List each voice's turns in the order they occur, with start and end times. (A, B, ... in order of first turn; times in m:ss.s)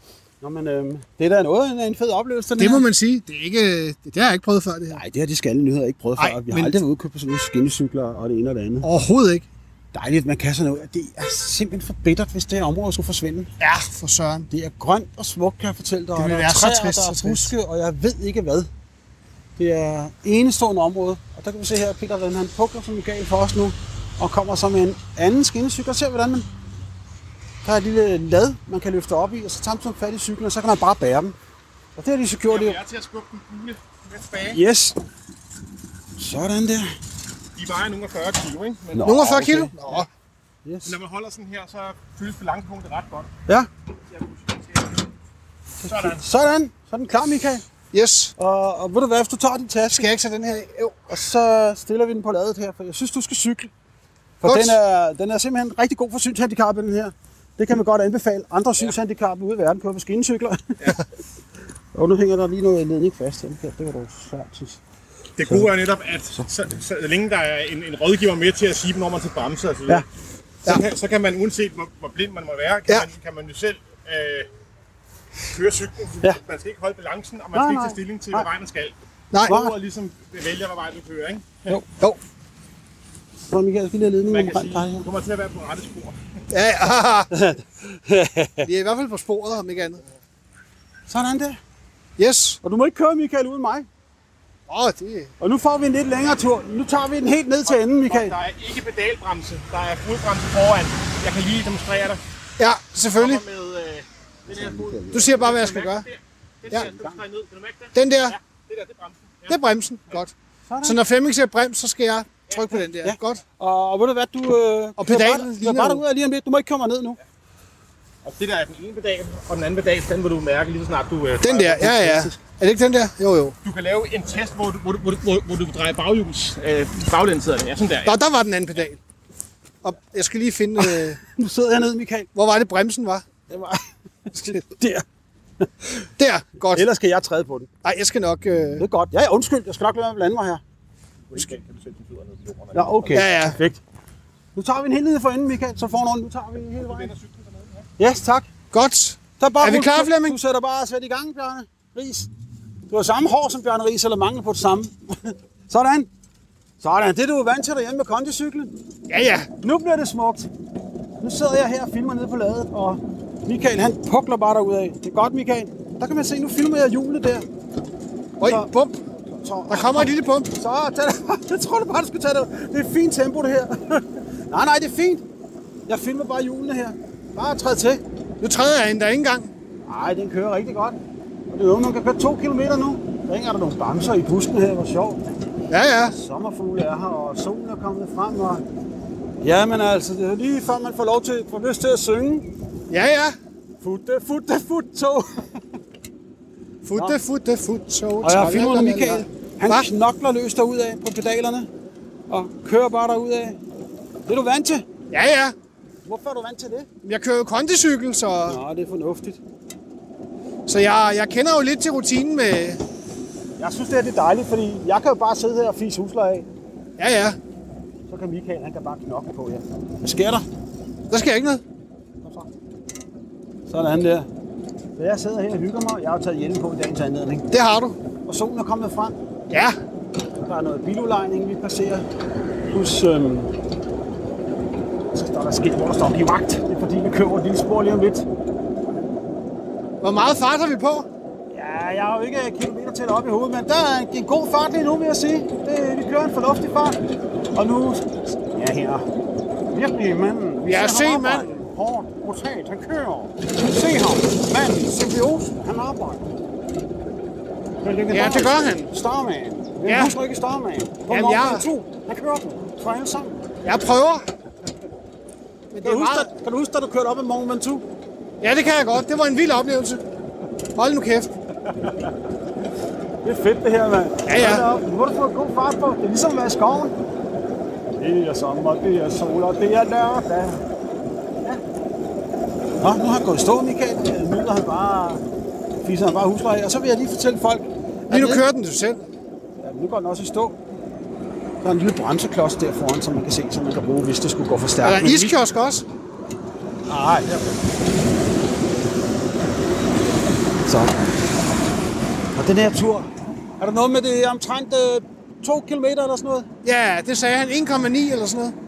0:00.4-0:02.8 A
0:02.6-0:05.0 B
0:04.9-0:08.9 A
0:06.2-0:06.8 B
0:08.8-0:09.4 B
0:09.9-0:13.5 A
0:13.6-0:14.5 B
0:14.5-0:18.7 A
0:16.2-0:17.5 B
0:19.6-0:26.5 A
0:27.6-0:31.3 A
0:32.0-0:32.8 A
0:32.5-0:34.6 C
0:34.5-0:35.0 A
0:36.2-0:36.9 A
0:37.6-0:39.2 C
0:38.9-0:39.7 A
0:39.0-0:40.1 B
0:40.6-0:40.9 A
0:40.8-0:43.3 C
0:44.1-0:44.8 C
0:45.8-0:47.6 A
0:45.8-0:46.2 C
0:47.9-0:48.3 B
0:48.4-0:50.1 A
0:49.9-0:51.0 B
0:51.1-0:53.7 A
0:54.4-1:00.8 A
0:54.4-0:54.8 B
1:01.9-1:04.8 A
1:05.4-1:10.0 C
1:10.6-1:14.5 C
1:15.5-1:18.9 C
1:17.5-1:18.5 A
1:19.3-1:19.6 B
1:19.4-1:21.8 C
1:19.5-1:19.7 A
1:23.5-1:25.0 A
1:24.3-1:26.2 C
1:26.5-1:27.3 B
1:27.3-1:28.7 A
1:28.6-1:30.0 B
1:31.1-1:31.6 A
1:32.2-1:32.6 B
1:32.6-1:33.9 A
1:34.7-1:35.3 B
1:35.4-1:38.3 A
1:37.7-1:42.2 C
1:42.6-1:43.4 B
1:43.2-1:49.6 C
1:44.5-1:45.4 A
1:45.1-1:46.0 B
1:46.7-1:47.2 A
1:47.9-1:48.4 B
1:49.5-1:53.4 B
1:50.7-1:51.0 A
1:53.0-1:57.2 A
1:55.0-1:56.0 B
1:58.2-2:02.0 C
2:01.4-2:03.5 B
2:01.8-2:02.3 A
2:03.6-2:08.2 C
2:08.0-2:09.0 B
2:09.8-2:11.2 B
2:10.8-2:12.3 A
2:12.3-2:13.2 B
2:13.5-2:15.0 A
2:15.6-2:16.1 A
2:16.2-2:16.9 B
2:16.7-2:17.7 A
2:17.8-2:18.8 B
2:18.8-2:20.6 A
2:21.3-2:23.3 C
2:22.7-2:23.8 A
2:23.1-2:23.6 B
2:24.6-2:27.1 A
2:26.8-2:27.9 C
2:28.0-2:28.5 A
2:28.7-2:30.4 B
2:29.4-2:32.3 A
2:32.9-2:36.1 A
2:36.8-2:38.7 A
2:39.1-2:39.5 B
2:39.6-2:40.5 A
2:41.2-2:47.4 A
2:48.4-2:49.0 B
2:48.4-2:48.7 A
2:49.4-2:55.2 A
2:49.7-2:50.5 B
2:55.9-2:58.0 A
2:58.4-2:59.5 B
2:59.9-3:01.0 A
3:01.5-3:05.3 A
3:05.7-3:06.1 B
3:06.0-3:08.6 A
3:09.4-3:12.5 A
3:12.9-3:13.3 B
3:13.8-3:15.6 A
3:16.8-3:19.9 B
3:18.2-3:21.7 A
3:22.3-3:23.6 A
3:24.3-3:24.8 A
3:25.1-3:25.5 B
3:26.0-3:26.9 A
3:27.0-3:28.6 B
3:28.5-3:29.4 A
3:30.7-3:32.8 B
3:33.6-3:36.5 A
3:37.0-3:37.4 B
3:38.1-3:40.4 A
3:41.1-3:41.6 B
3:42.2-3:42.5 A
3:43.7-3:44.3 A
3:45.0-3:47.4 A
3:47.5-3:48.0 B
3:48.2-3:49.2 A
3:49.5-3:49.7 B
3:50.4-3:52.0 A
3:52.7-3:53.5 A
3:55.1-3:58.3 A
4:00.0-4:01.1 B
4:01.5-4:07.0 A
4:07.5-4:09.0 A
4:09.7-4:16.3 A
4:10.6-4:11.6 B
4:17.8-4:23.4 A
4:18.1-4:18.9 B
4:19.8-4:20.2 B
4:21.1-4:21.7 B
4:23.6-4:24.2 B
4:25.7-4:26.3 B
4:25.8-4:27.8 A
4:28.4-4:30.0 B
4:30.7-4:31.3 B
4:33.2-4:36.9 A
4:34.2-4:34.7 B
4:38.0-4:40.6 A
4:42.8-4:45.2 A
4:45.8-4:48.4 A
4:48.1-4:49.0 B
4:49.6-4:50.6 A
4:51.6-4:55.3 A
4:54.8-4:55.8 B
4:56.9-4:57.6 A
5:00.6-5:01.1 A
5:02.4-5:06.5 A
5:06.6-5:08.5 B